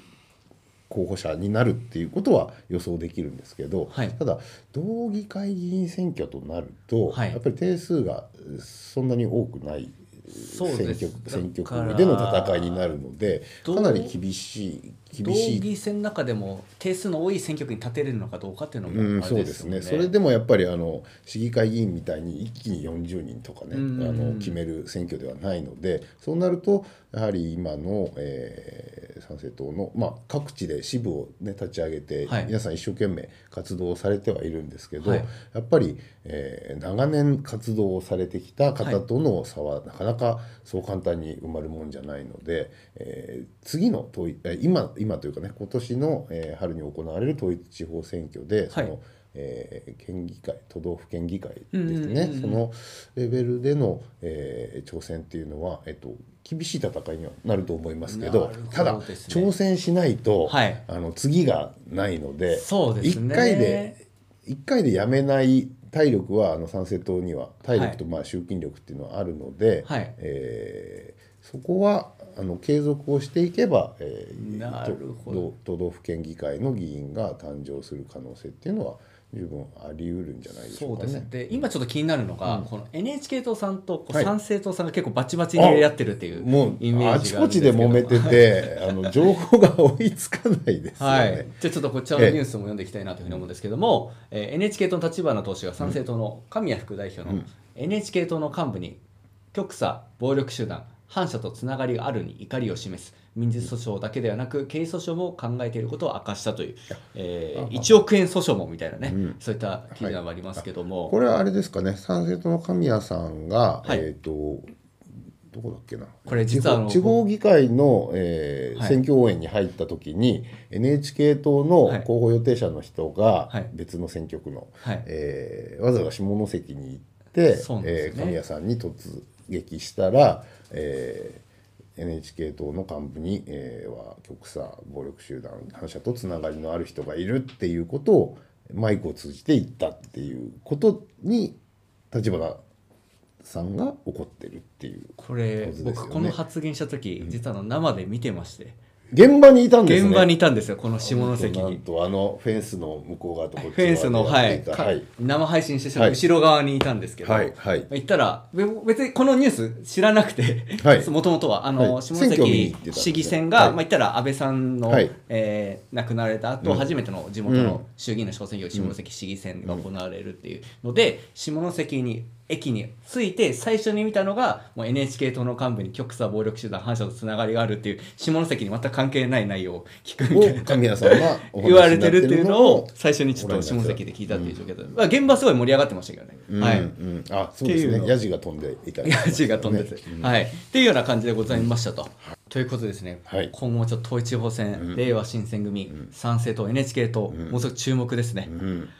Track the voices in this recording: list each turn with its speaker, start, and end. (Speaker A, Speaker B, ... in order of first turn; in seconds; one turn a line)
Speaker A: 0.9-15.7
Speaker B: 3.9-4.2
Speaker B: 7.1-7.4
Speaker B: 10.3-12.9
Speaker B: 13.6-14.1
Speaker B: 15.2-20.1
Speaker A: 18.9-81.6
Speaker B: 23.7-24.6
Speaker B: 32.3-32.5
Speaker B: 35.0-35.3
Speaker B: 51.7-52.6
Speaker B: 58.1-59.5
Speaker B: 60.5-60.8
Speaker B: 62.5-64.0
Speaker B: 69.9-70.1
Speaker B: 74.4-75.5
Speaker B: 80.7-89.1
Speaker A: 85.6-91.5
Speaker B: 91.0-99.0
Speaker A: 92.2-92.4
Speaker B: 99.5-111.2
Speaker A: 107.5-108.0
Speaker A: 109.0-109.4
Speaker A: 109.9-114.7
Speaker A: 115.5-131.4
Speaker B: 116.3-117.2
Speaker B: 127.5-128.4
Speaker A: 131.9-141.6
Speaker A: 142.1-142.6
Speaker A: 143.4-146.4
Speaker B: 145.2-148.8
Speaker A: 149.1-155.1
Speaker B: 149.8-151.8
Speaker B: 153.6-186.9
Speaker A: 157.2-157.9
Speaker A: 160.8-161.1
Speaker A: 161.8-163.8
Speaker A: 166.6-166.9
Speaker A: 167.4-167.8
Speaker A: 180.3-185.0
Speaker A: 186.5-190.4
Speaker B: 187.6-188.1
Speaker B: 189.0-198.5
Speaker A: 194.8-195.0
Speaker A: 197.3-197.6
Speaker A: 198.5-198.9